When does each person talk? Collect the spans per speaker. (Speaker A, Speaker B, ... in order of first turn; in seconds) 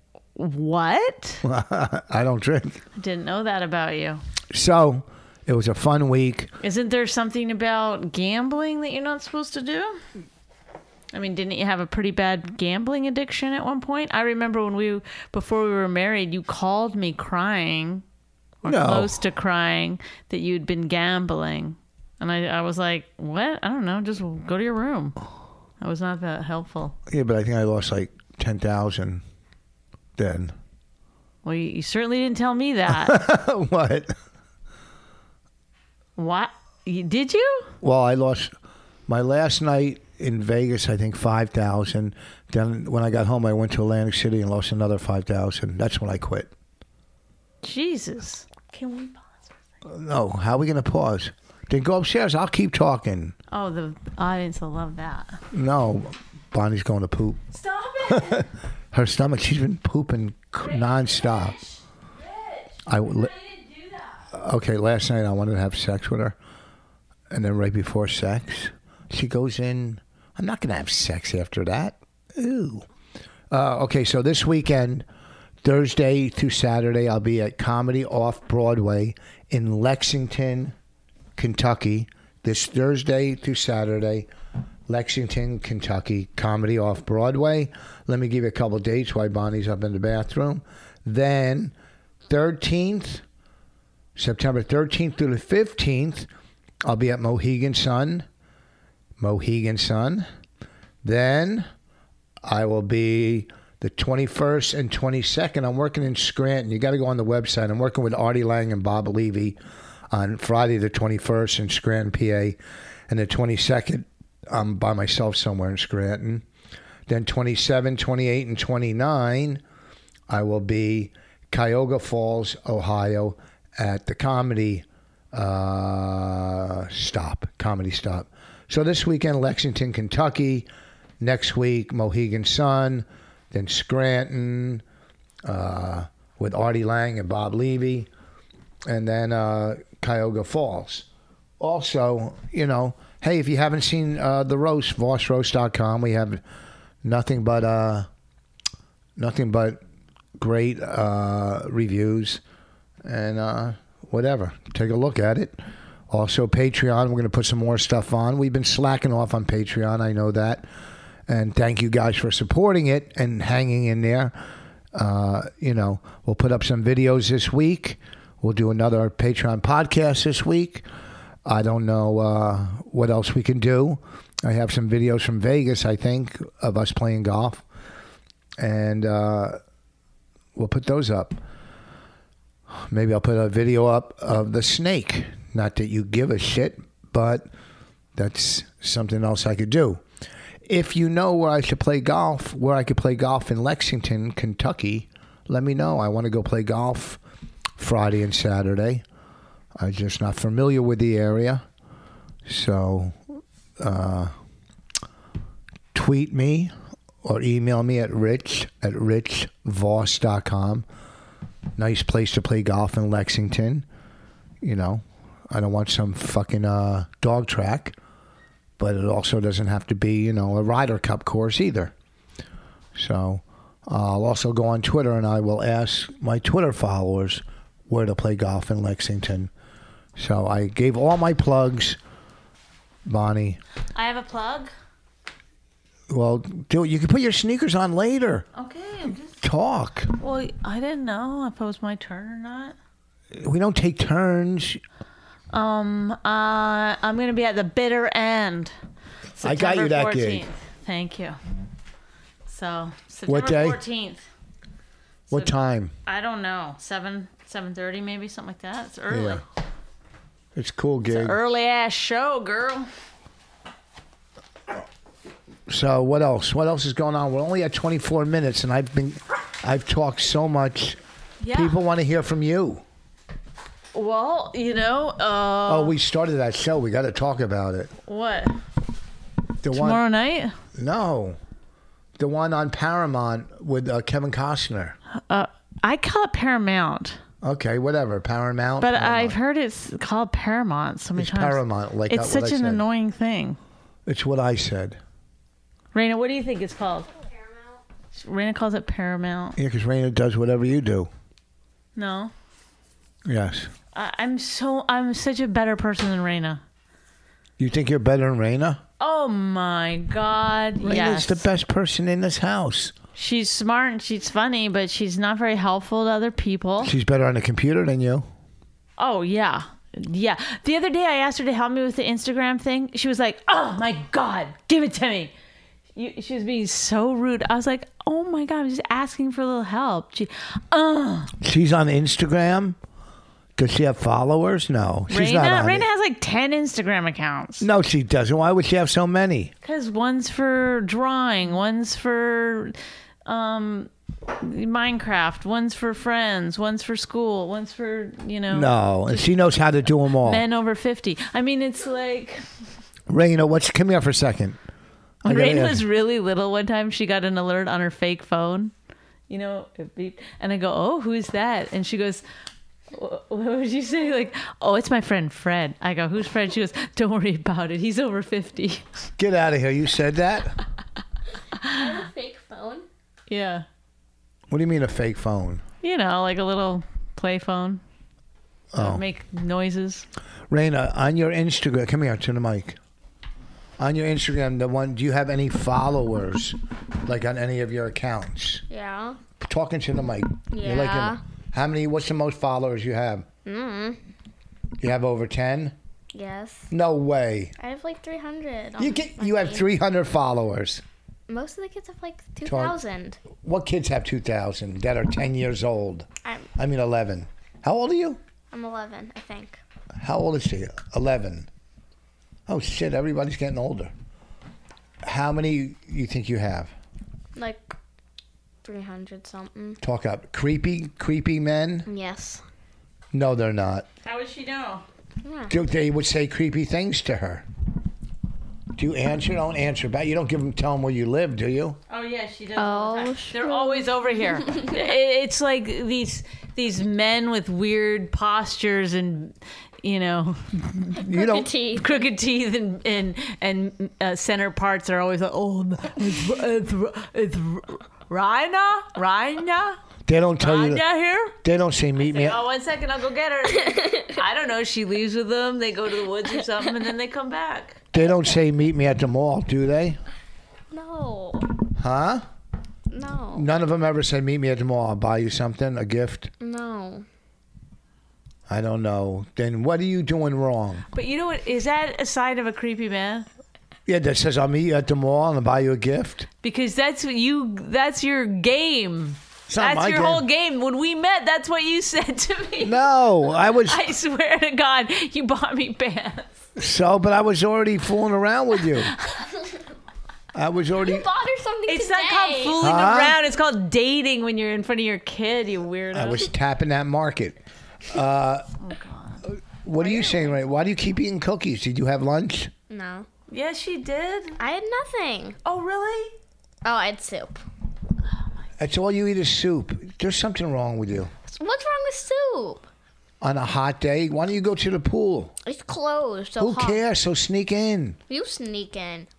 Speaker A: 0.3-1.4, 2.9-4.2, 6.6-10.0, 11.1-18.0, 18.6-25.2, 25.8-26.9, 31.4-33.2, 36.2-37.7, 47.6-49.5, 53.5-55.4, 57.5-58.5, 60.6-64.2, 233.9-234.7, 238.5-239.4, 240.2-242.7, 245.5-248.7, 249.4-251.4, 252.5-254.2, 256.1-259.4, 261.1-262.9, 271.4-271.8, 273.9-275.9, 278.1-278.6, 279.7-280.5, 285.1-287.2, 288.8-293.6, 295.9-297.1, 298.1-299.6, 301.9-302.3, 303.9-306.6, 309.0-311.4, 313.1-316.9, 319.0-325.3, 325.9-331.3, 335.1-337.7, 339.6-349.2, 350.2-352.4, 355.2-358.7, 359.3-362.2, 362.9-368.8, 371.6-371.9, 373.3-373.6, 375.8-377.8, 378.8-380.1, 424.0-424.8, 431.9-441.0, 441.8-449.8, 450.4-451.4, 452.0-457.8, 470.9-473.2, 476.4-482.8, 483.6-486.4, 491.7-496.3, 498.6-499.2, 499.8-500.3, 503.3-504.4, 505.4-506.1
Speaker B: 1.4-2.8, 4.5-6.5, 18.6-19.2, 27.1-29.2, 30.2-30.5, 32.9-34.1, 37.8-38.5, 39.1-46.5, 49.8-53.3, 55.5-57.4, 58.1-61.5, 62.9-63.3, 64.3-66.3, 67.3-72.8, 73.5-75.0, 75.6-80.7, 81.3-84.3, 84.9-91.7, 92.3-93.2, 94.2-96.3, 96.8-98.2, 99.2-100.2, 101.0-101.7, 102.4-109.6, 110.1-112.6, 113.1-116.4, 117.1-119.6, 120.3-130.7, 131.2-134.8, 135.4-138.1, 138.8-141.1, 141.6-146.4, 147.0-148.1, 149.2-149.8, 150.4-152.4, 153.0-155.6, 156.1-160.7, 161.3-164.3, 164.9-170.8, 171.4-177.6, 178.6-179.6, 180.6-181.4, 182.7-187.5, 188.2-190.0, 190.7-197.2, 197.8-199.0, 199.8-201.6, 202.4-203.2, 203.8-204.3, 205.9-206.7, 207.2-210.8, 211.8-213.8, 214.6-217.9, 218.8-221.9, 222.9-229.5, 230.2-232.0, 233.1-233.6, 236.1-238.5, 239.4-240.1, 243.3-244.8, 249.4-250.4, 253.3-253.8, 255.3-255.9, 259.1-259.4, 260.5-261.4, 265.7-271.0, 271.5-272.8, 275.7-277.9, 279.6-280.0, 280.7-281.4, 282.2-284.9, 287.4-289.4, 291.1-292.8, 294.1-295.0, 299.6-301.1, 303.2-303.7, 307.6-308.8, 310.8-312.9, 316.8-318.2, 331.4-332.8, 333.6-335.9, 337.6-339.5, 348.5-350.4, 353.1-354.6, 355.2-355.8, 369.2-370.6, 374.5-375.6, 378.7-379.0, 380.5-382.8, 383.8-388.6, 389.4-393.2, 394.8-395.7, 396.7-397.5, 398.8-400.8, 402.4-402.8, 403.4-408.2, 410.0-411.5, 412.5-413.9, 415.0-416.7, 419.8-421.9, 423.1-423.9, 425.5-427.4, 428.8-431.8, 441.0-441.5, 450.1-450.8, 451.4-452.4, 457.9-460.0, 461.8-462.2, 463.3-466.3, 468.5-470.8, 473.9-476.3, 479.5-480.2, 482.6-483.8, 486.6-488.9, 490.3-491.1, 492.6-493.2, 495.9-497.4, 497.9-498.5, 499.3-502.5, 508.6-511.1, 513.2-515.3, 516.4-518.0
Speaker C: 371.7-372.9, 388.7-389.2, 390.5-391.2, 393.4-394.0, 396.1-396.7, 397.6-399.6, 401.3-403.2, 408.5-409.6, 417.4-417.7, 418.6-419.8, 421.9-422.4, 425.2-425.5, 432.6-433.9, 434.4-434.8, 441.0-442.1, 453.7-454.1, 460.7-461.5, 462.9-463.5, 466.4-467.1, 490.8-492.6, 502.7-503.1, 504.4-505.4, 506.6-507.4, 511.3-512.6, 515.4-516.8, 518.1-519.1